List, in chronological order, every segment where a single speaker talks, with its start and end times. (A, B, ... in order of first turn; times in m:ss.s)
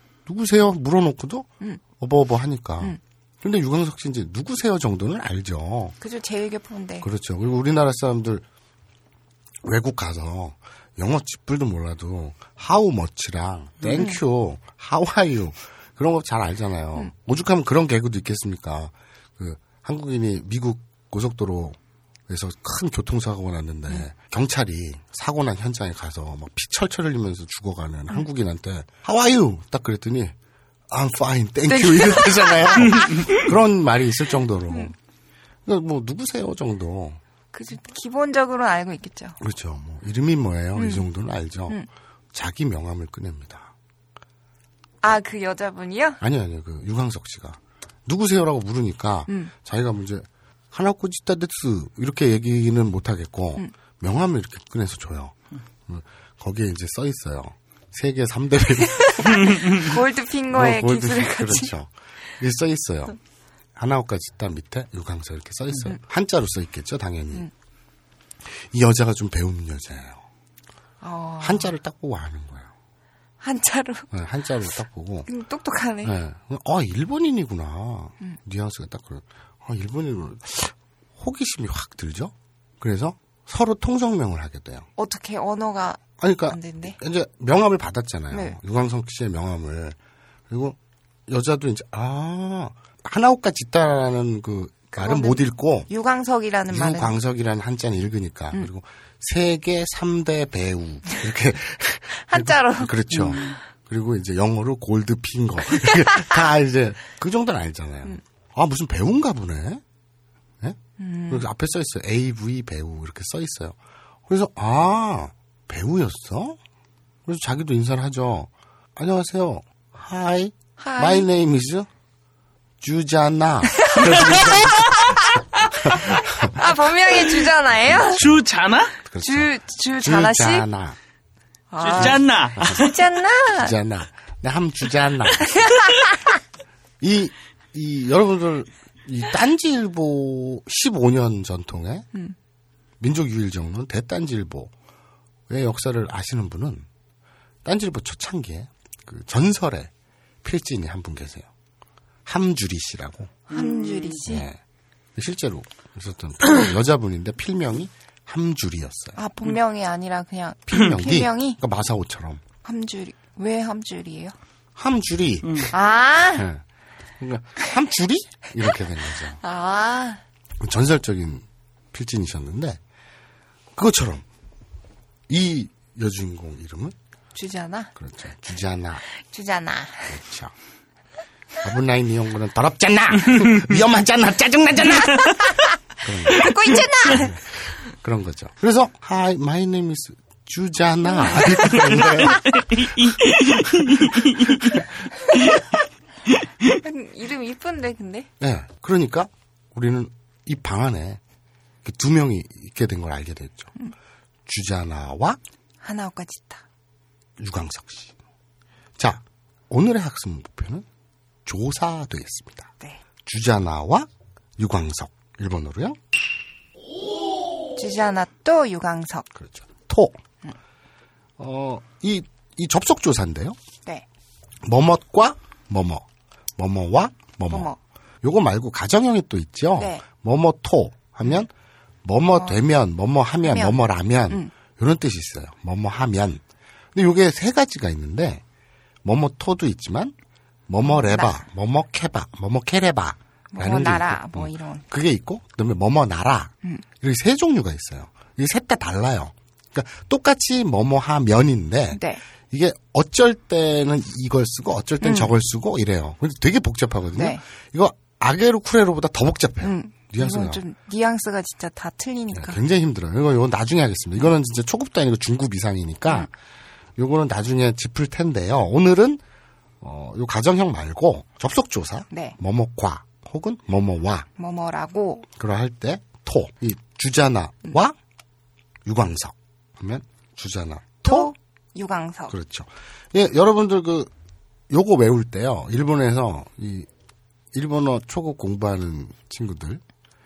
0:00.2-0:06.0 A
0:06.0-0:07.0 B
0:07.0-0:08.4 A
0:09.6-0:21.8 A
0:22.3-0:30.3 A
0:30.9-0:34.9 A
0:31.7-0:33.2 B
0:32.9-0:33.4 C
0:35.6-0:37.2 A
0:37.5-0:39.4 B
0:39.4-0:43.7 A
0:40.8-0:41.1 B
0:45.0-0:46.2 B
0:46.2-0:55.3 A
0:55.9-0:59.6 A
0:59.1-1:01.7 B
1:00.5-1:03.2 A
1:03.8-1:07.5 A
1:08.4-1:10.2 A
1:11.0-1:11.7 B
1:11.4-1:12.7 A
1:13.4-1:14.1 B
1:14.1-1:15.3 A
1:15.3-1:16.1 B
1:16.0-1:24.8 A
1:25.0-1:27.0 B
1:26.2-1:30.0 A
1:28.3-1:28.6 B
1:30.5-1:30.8 A
1:31.3-1:35.9 A
1:34.9-1:37.1 B
1:36.7-1:49.8 A
1:42.2-1:43.3 B
1:43.1-1:43.6 C
1:50.6-1:56.6 A
1:51.0-1:51.4 B
1:57.2-2:01.9 A
2:00.8-2:01.2 B
2:02.8-2:05.2 A
2:03.9-2:04.1 B
2:04.0-2:05.0 C
2:05.8-2:06.7 A
2:06.4-2:08.2 B
2:07.9-2:08.3 A
2:08.1-2:08.9 C
2:09.1-2:11.0 A
2:09.2-2:10.6 B
2:11.7-2:13.7 B
2:11.8-2:12.9 C
2:11.9-2:12.8 A
2:13.6-2:15.7 A
2:17.0-2:22.1 A
2:23.0-2:24.7 A
2:25.5-2:26.8 A
2:27.6-2:29.9 A
2:30.4-2:31.5 A
2:32.2-2:33.4 A
2:33.5-2:34.2 C
2:33.5-2:34.4 B
2:34.2-2:34.6 A
2:35.2-2:39.2 A
2:39.2-2:41.6 B
2:40.7-2:42.4 A
2:42.6-2:44.3 B
2:44.8-2:45.7 A
2:45.4-2:45.7 C
2:45.7-2:46.4 B
2:46.3-2:46.6 A
2:47.2-2:49.4 A
2:49.4-2:50.2 B
2:50.6-2:52.8 A
2:53.7-2:54.2 A
2:55.3-2:56.9 A
2:57.3-2:57.9 B
2:58.0-2:59.0 A
2:59.1-3:00.2 B
3:00.1-3:00.5 A
3:01.6-3:05.4 A
3:06.0-3:13.3 A
3:06.3-3:07.3 B
3:11.7-3:14.8 C
3:16.8-3:18.3 B
3:18.4-3:21.2 A
3:21.8-3:23.7 A
3:24.5-3:25.4 A
3:25.8-3:26.6 B
3:27.4-3:28.1 A
3:29.0-3:30.8 A
3:31.4-3:32.7 A
3:33.2-3:36.0 A
3:37.8-3:39.2 B
3:39.3-3:40.2 A
3:41.4-3:43.6 A
3:44.6-3:46.0 A
3:46.6-3:47.7 A
3:47.5-3:47.8 B
3:48.2-3:51.5 A
3:49.8-3:50.0 B
3:52.0-3:56.4 A
3:53.4-3:53.8 B
3:56.9-3:58.4 A
3:59.0-4:00.1 A
4:00.7-4:20.6 A
4:00.8-4:01.3 B
4:03.5-4:04.8 B
4:11.9-4:12.2 B
4:15.0-4:15.3 B
4:17.2-4:17.4 B
4:19.6-4:22.6 B
4:22.3-4:26.3 A
4:27.0-4:29.2 A
4:29.8-4:34.3 A
4:34.4-4:35.2 B
4:35.4-4:38.0 A
4:38.8-4:41.3 A
4:41.0-4:42.3 B
4:42.3-4:44.1 A
4:44.7-4:46.9 A
4:47.5-4:49.8 A